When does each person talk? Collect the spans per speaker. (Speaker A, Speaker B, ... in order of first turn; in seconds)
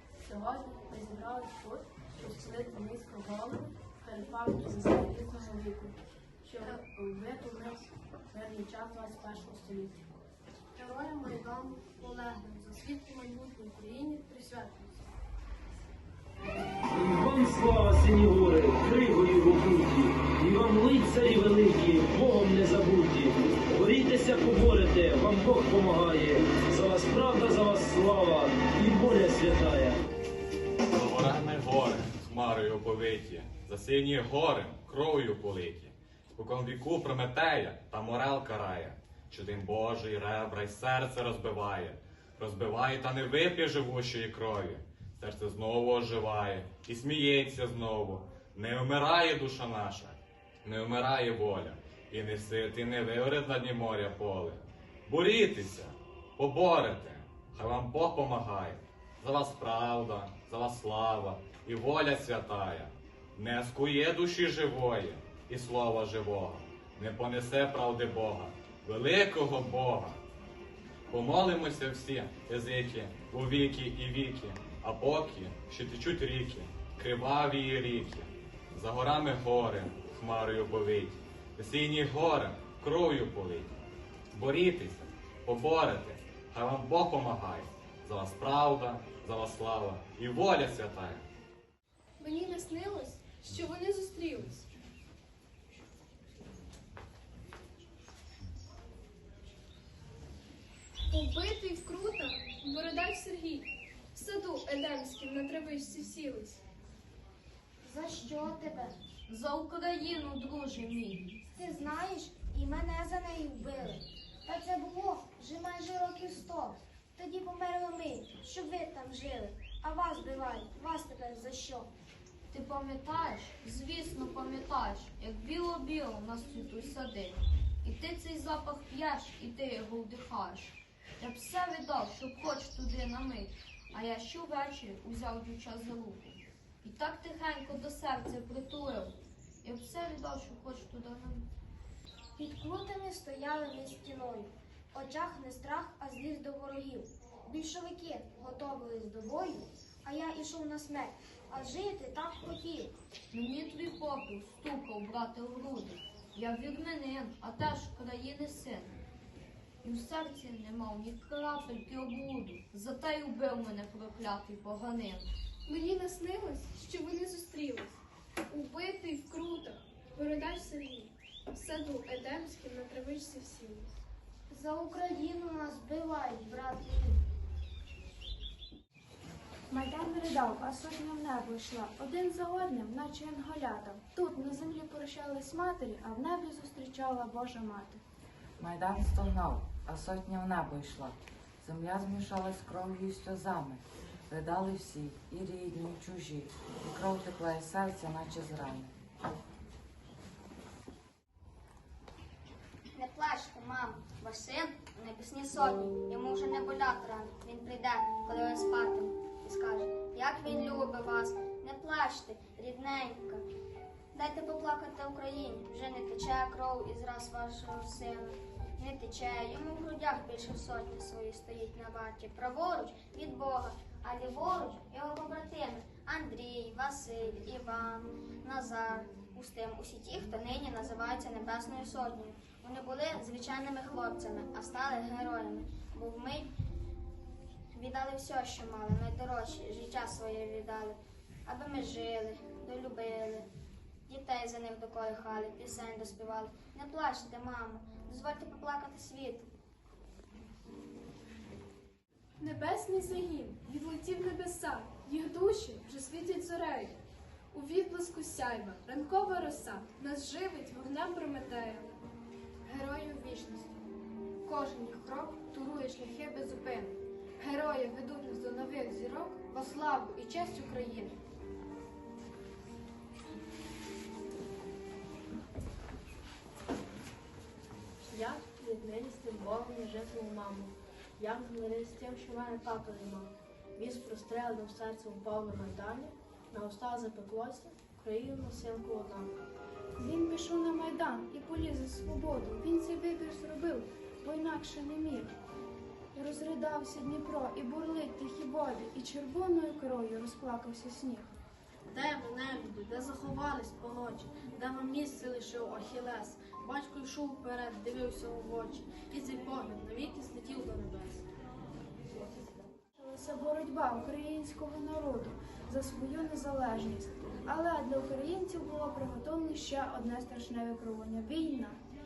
Speaker A: 0.3-10.0, 10.8-15.0, 278.1-289.3, 301.9-311.2
Speaker B: 16.9-30.0
Speaker C: 30.9-70.2, 71.1-83.8, 84.3-91.2
Speaker D: 92.2-94.7, 101.1-106.6, 165.7-173.9, 252.4-257.0, 257.5-262.0
Speaker E: 107.8-108.9, 111.5-121.9, 142.4-152.9, 174.5-177.2
Speaker F: 109.3-111.4, 122.5-141.5, 153.3-158.9, 159.8-165.3
Speaker G: 179.7-188.0, 290.0-295.3, 296.1-301.3, 313.0-321.8
Speaker H: 188.6-198.9
Speaker I: 202.9-213.4, 214.1-236.5, 237.7-243.5, 244.1-249.5